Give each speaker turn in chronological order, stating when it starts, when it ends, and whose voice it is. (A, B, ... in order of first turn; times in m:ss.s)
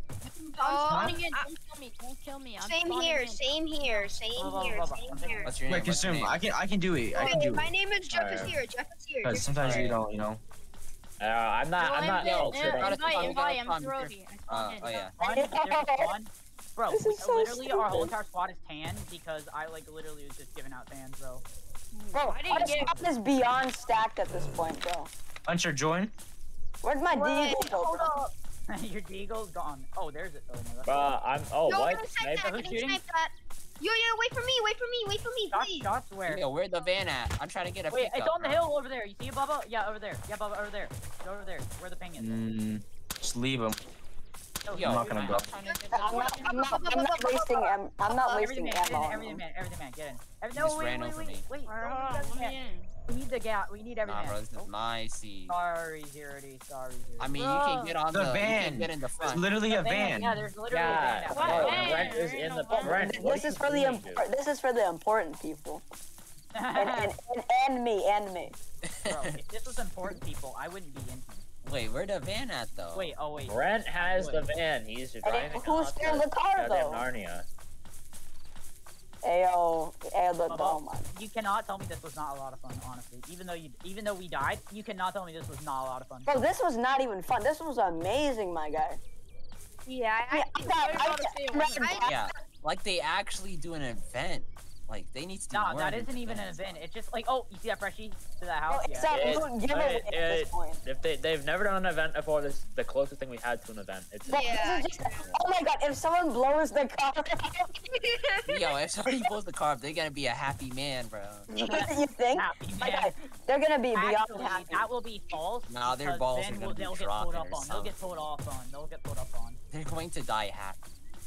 0:00.3-0:01.5 A
0:00.5-0:04.2 B
0:00.8-0:01.2 C
0:02.6-0:05.6 A
0:04.3-0:05.6 D
0:05.2-0:05.4 B
0:05.4-0:06.4 E
0:05.7-0:07.7 C
0:07.1-0:09.9 A
0:07.2-0:07.5 B
0:08.1-0:08.5 F
0:09.2-0:10.4 C
0:09.6-0:10.0 E
0:11.2-0:13.4 F
0:11.8-0:15.1 B
0:12.3-0:15.2 E
0:15.2-0:21.4 D
0:15.2-0:16.1 G
0:16.9-0:18.1 G
0:21.9-0:23.1 B
0:22.1-0:25.1 G
0:25.4-0:26.1 C
0:26.8-0:28.1 G
0:27.1-0:28.3 A
0:28.7-0:31.1 D
0:30.8-0:32.6 F
0:31.7-0:35.9 A
0:32.4-0:33.0 D
0:35.5-0:36.4 D
0:36.3-0:38.7 E
0:37.9-0:42.4 D
0:42.2-0:43.8 C
0:44.6-0:45.5 D
0:44.7-0:45.5 E
0:44.8-0:45.5 C
0:45.3-0:46.9 B
0:45.6-0:48.4 A
0:46.0-0:49.4 G
0:48.3-0:54.7 D
0:50.5-0:51.4 E
0:51.6-0:52.9 B
0:54.0-0:55.6 E
0:55.5-0:57.4 D
0:57.2-0:59.4 E
0:57.3-0:58.0 B
0:58.1-1:00.5 C
0:59.2-1:02.2 D
1:00.7-1:04.2 F
1:01.3-1:03.1 B
1:01.4-1:02.0 E
1:02.9-1:05.8 G
1:06.5-1:07.1 D
1:06.7-1:08.6 G
1:08.8-1:09.3 E
1:09.0-1:11.5 D
1:11.6-1:13.1 E
1:12.9-1:14.5 D
1:13.5-1:17.4 F
1:15.2-1:17.0 G
1:19.2-1:21.1 G
1:20.5-1:26.3 D
1:26.2-1:29.0 G
1:29.8-1:32.1 A
1:30.3-1:32.3 G
1:30.6-1:32.1 B
1:32.0-1:36.8 E
1:35.5-1:40.0 D
1:38.7-1:40.8 G
1:39.1-1:44.6 F
1:44.2-1:47.7 G
1:44.3-1:45.2 A
1:47.9-1:48.7 A
1:48.4-1:51.5 E
1:51.5-1:54.9 G
1:51.6-1:53.3 D
1:53.9-1:59.6 D
1:55.7-1:57.9 E
1:59.7-2:01.0 E